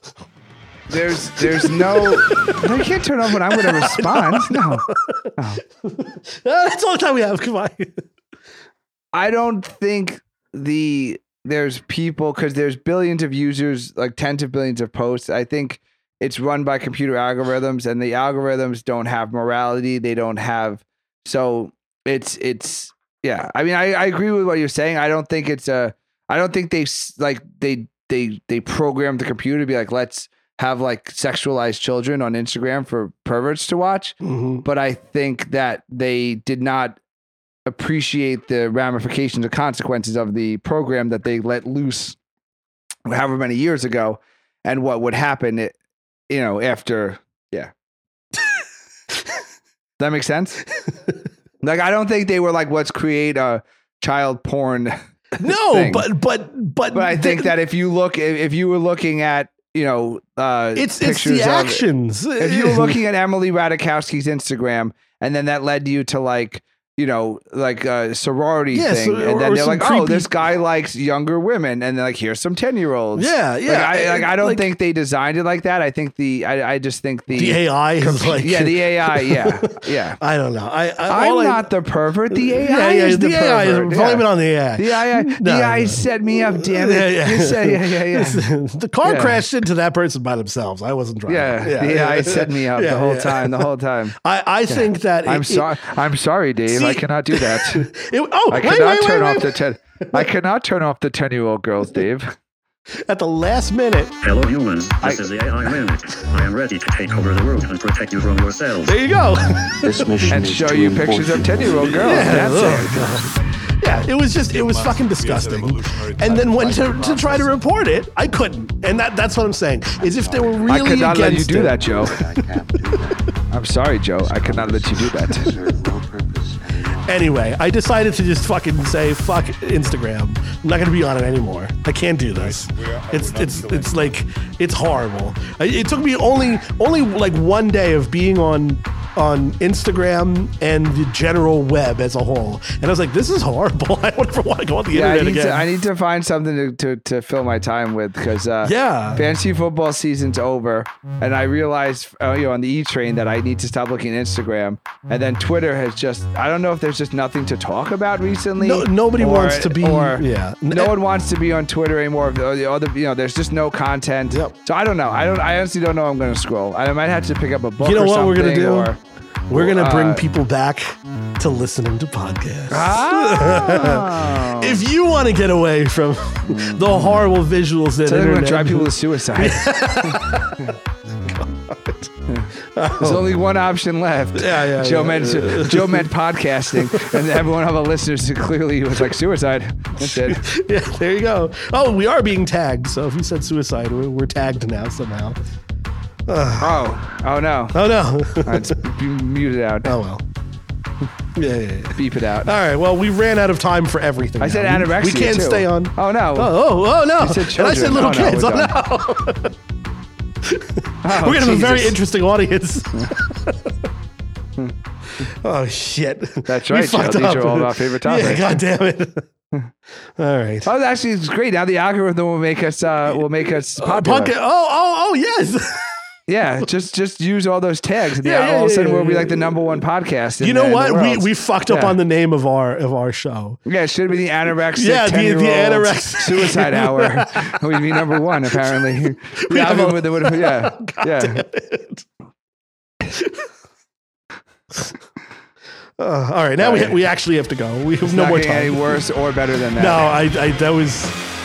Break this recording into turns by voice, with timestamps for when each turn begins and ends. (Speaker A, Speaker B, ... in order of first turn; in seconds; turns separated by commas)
Speaker A: 0.9-4.8, Speaker B: 1.2-2.7, Speaker B: 3.4-8.0, Speaker A: 5.4-5.6, Speaker A: 9.1-37.0, Speaker B: 34.2-34.6, Speaker A: 37.6-42.2, Speaker A: 43.0-45.7, Speaker A: 46.3-47.7, Speaker A: 50.0-50.6, Speaker A: 51.6-54.9, Speaker B: 55.4-57.5, Speaker A: 55.5-56.0, Speaker A: 56.9-61.8, Speaker B: 60.8-63.0, Speaker A: 62.4-80.2, Speaker B: 68.7-70.3, Speaker B: 73.1-74.7, Speaker B: 77.3-81.7, Speaker A: 81.1-84.3, Speaker B: 82.3-93.7, Speaker A: 84.8-88.5, Speaker A: 89.0-89.4, Speaker A: 91.3-94.1, Speaker B: 94.2-95.8, Speaker A: 94.7-97.9, Speaker B: 96.7-100.3, Speaker A: 98.5-102.3, Speaker B: 103.1-104.1, Speaker C: 104.2-109.0, Speaker A: 105.0-105.2, Speaker B: 108.8-110.4, Speaker D: 109.8-113.2, Speaker C: 110.1-110.7, Speaker A: 110.3-113.0, Speaker B: 111.8-123.0, Speaker D: 114.5-117.7, Speaker D: 120.0-120.8, Speaker A: 120.7-122.2, Speaker D: 122.1-123.2, Speaker A: 123.5-125.5, Speaker D: 124.2-127.1, Speaker B: 126.8-145.7, Speaker D: 132.3-134.1, Speaker A: 144.9-169.0, Speaker B: 148.6-149.2, Speaker B: 158.6-161.0, Speaker B: 167.8-168.9, Speaker B: 169.5-182.1, Speaker A: 169.5-170.2, Speaker A: 172.7-174.8, Speaker A: 176.5-177.2, Speaker A: 178.0-180.7, Speaker A: 182.3-190.4, Speaker B: 182.6-183.4, Speaker B: 184.3-186.1, Speaker B: 186.8-187.2, Speaker B: 190.0-195.4, Speaker B: 196.3-196.8, Speaker A: 196.6-197.9, Speaker B: 197.7-198.8, Speaker A: 198.4-199.9, Speaker B: 199.8-200.2, Speaker B: 201.3-209.5, Speaker A: 201.9-202.5, Speaker A: 204.4-206.5, Speaker A: 207.2-208.7, Speaker B: 210.4-213.8, Speaker A: 211.0-212.0, Speaker B: 215.2-219.3, Speaker A: 216.5-218.6, Speaker B: 220.2-220.7, Speaker A: 220.7-224.3, Speaker B: 223.1-225.8, Speaker A: 226.3-231.9, Speaker B: 228.2-229.8, Speaker B: 230.4-233.6, Speaker A: 233.7-241.4, Speaker B: 234.7-242.1, Speaker B: 243.0-243.5, Speaker B: 246.0-249.0, Speaker A: 246.6-247.0, Speaker A: 248.0-250.0, Speaker B: 249.8-251.2